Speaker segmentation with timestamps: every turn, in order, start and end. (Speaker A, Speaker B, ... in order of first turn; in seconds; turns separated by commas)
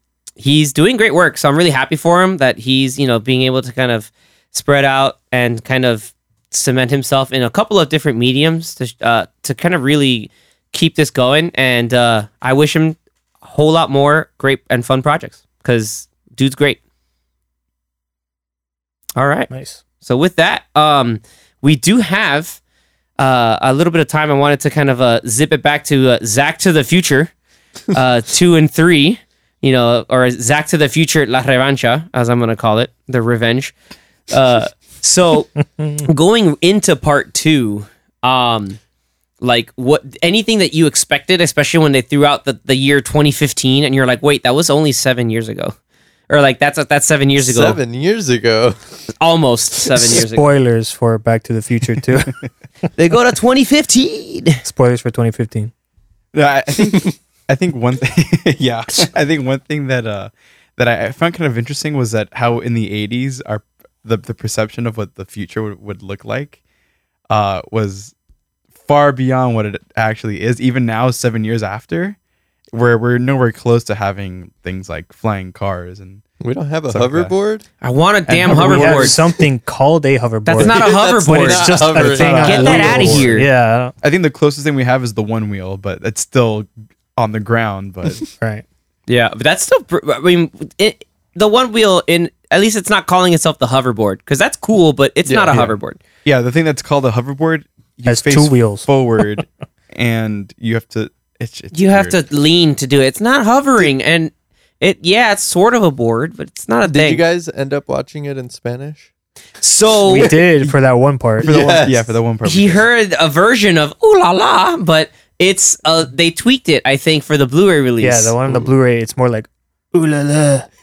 Speaker A: 0.4-16.8, Speaker A: 19.2-19.5, Speaker B: 19.5-19.8, Speaker A: 20.0-22.6, Speaker A: 23.2-27.3, Speaker A: 27.9-33.8, Speaker A: 34.3-35.5, Speaker A: 36.0-38.8, Speaker A: 39.4-45.8, Speaker A: 46.3-47.8, Speaker C: 47.4-48.8, Speaker A: 49.1-50.5, Speaker B: 50.0-52.4, Speaker A: 53.0-54.6, Speaker B: 54.6-55.7, Speaker D: 56.3-66.6, Speaker D: 67.3-68.1, Speaker D: 68.8-72.2, Speaker D: 72.7-76.2, Speaker C: 76.4-77.6, Speaker D: 76.9-77.3, Speaker A: 77.8-79.2, Speaker D: 78.3-79.2, Speaker B: 78.5-83.9, Speaker A: 80.5-83.5, Speaker C: 80.6-83.4, Speaker D: 84.0-88.2, Speaker B: 88.4-88.7, Speaker A: 89.1-96.0, Speaker C: 95.3-95.6, Speaker D: 96.2-102.2, Speaker B: 98.1-98.9, Speaker A: 101.7-107.2, Speaker C: 106.8-109.1, Speaker A: 109.6-110.3, Speaker B: 110.1-111.9, Speaker C: 111.4-112.1, Speaker D: 111.5-112.9, Speaker A: 112.5-118.3, Speaker B: 118.0-120.7